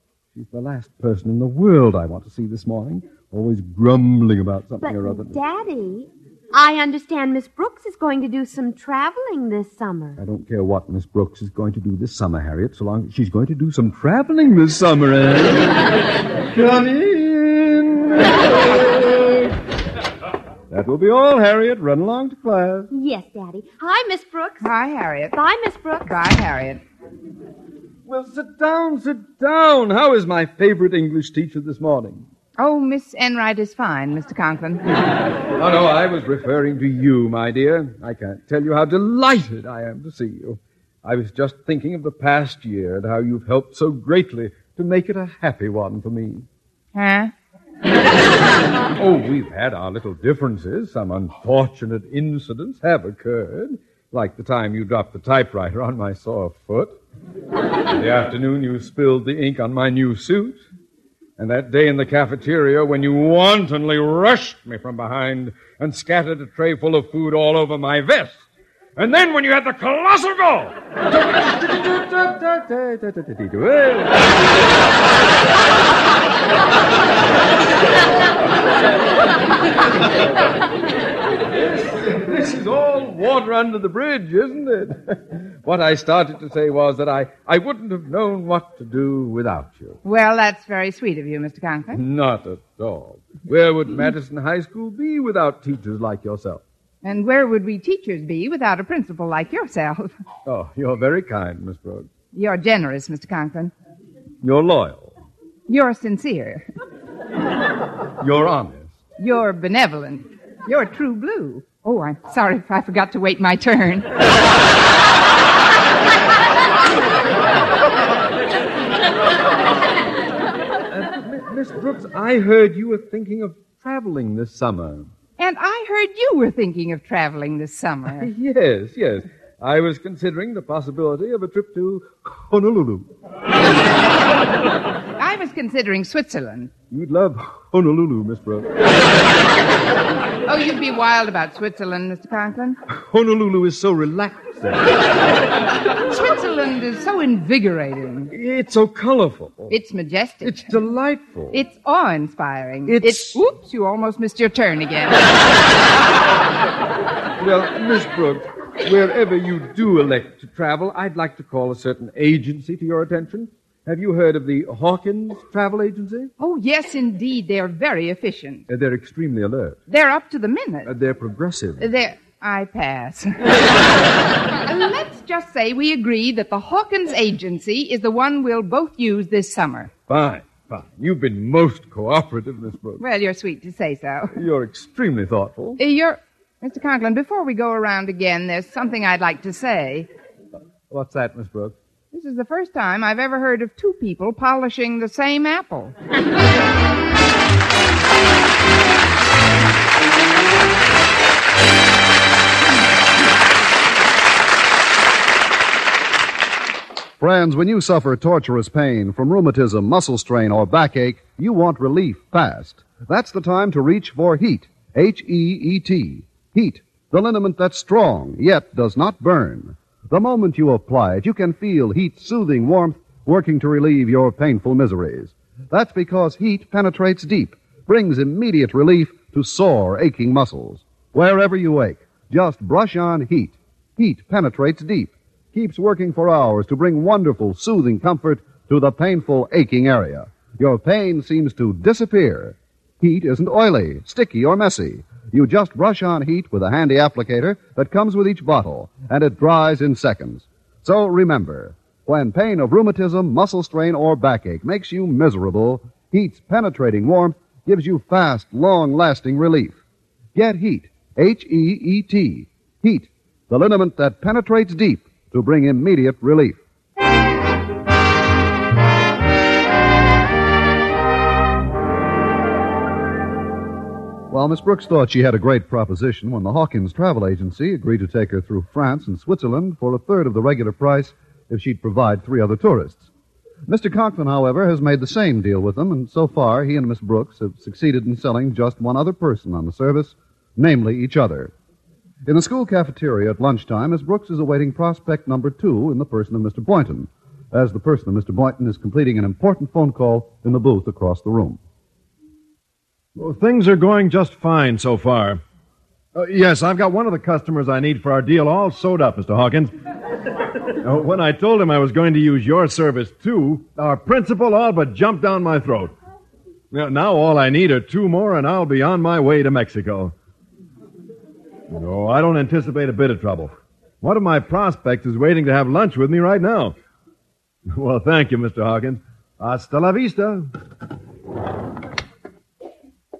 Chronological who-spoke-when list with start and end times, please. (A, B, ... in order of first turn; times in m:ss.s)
0:00.3-0:05.4 A
0:04.8-0:10.2 B
0:10.2-0:15.8 A
0:16.5-0:19.5 A
0:20.7-0:22.9 A
0:22.9-0:24.7 B
0:24.6-0:25.4 C
0:25.3-0:26.0 B
0:26.0-0:26.8 C
0:28.0-0:32.2 A
0:32.6-0:34.8 C
0:35.6-0:46.4 A
0:46.9-0:47.3 C
0:48.9-0:56.9 A
0:57.9-1:00.6 A
1:01.4-1:08.4 A
1:09.0-1:10.7 A
1:11.3-1:14.3 A
1:21.5-1:30.0 A
1:30.0-1:32.0 C
1:31.9-1:36.6 A
1:37.0-1:40.1 C
1:40.4-1:42.1 A
1:42.3-1:43.7 C
1:44.4-1:45.1 A
1:45.7-1:46.6 C
1:48.2-1:48.9 A
1:49.2-1:54.1 C
2:00.9-2:05.1 A
2:05.4-2:08.3 C
2:08.2-2:13.1 A
2:15.2-2:16.7 C
2:16.9-2:18.7 A
2:20.4-2:22.8 C
2:22.9-2:24.9 A
2:26.1-2:28.3 C
2:28.3-2:29.7 A
2:29.7-2:30.7 C
2:30.4-2:31.6 A
2:31.5-2:35.2 C
2:32.8-2:33.4 A
2:37.4-2:46.3 A
2:46.4-2:48.6 C
2:48.7-2:49.8 A
2:49.9-2:50.9 C
2:50.8-2:51.9 A
2:51.8-2:53.4 C
2:54.6-2:59.9 C
3:00.1-3:03.0 A
3:03.0-3:04.3 C
3:04.3-3:05.8 A
3:05.8-3:10.1 C
3:10.9-3:11.7 A
3:12.1-3:15.9 C
3:27.2-4:19.8 D
4:20.3-4:26.6 D
4:34.3-4:43.0 D
4:43.7-4:51.5 D
4:52.2-5:01.6 D
5:03.1-5:05.4 E
5:06.1-5:09.7 E
5:10.8-5:15.9 E
5:16.7-5:20.1 E
5:21.7-5:26.8 E
5:27.7-5:30.5 E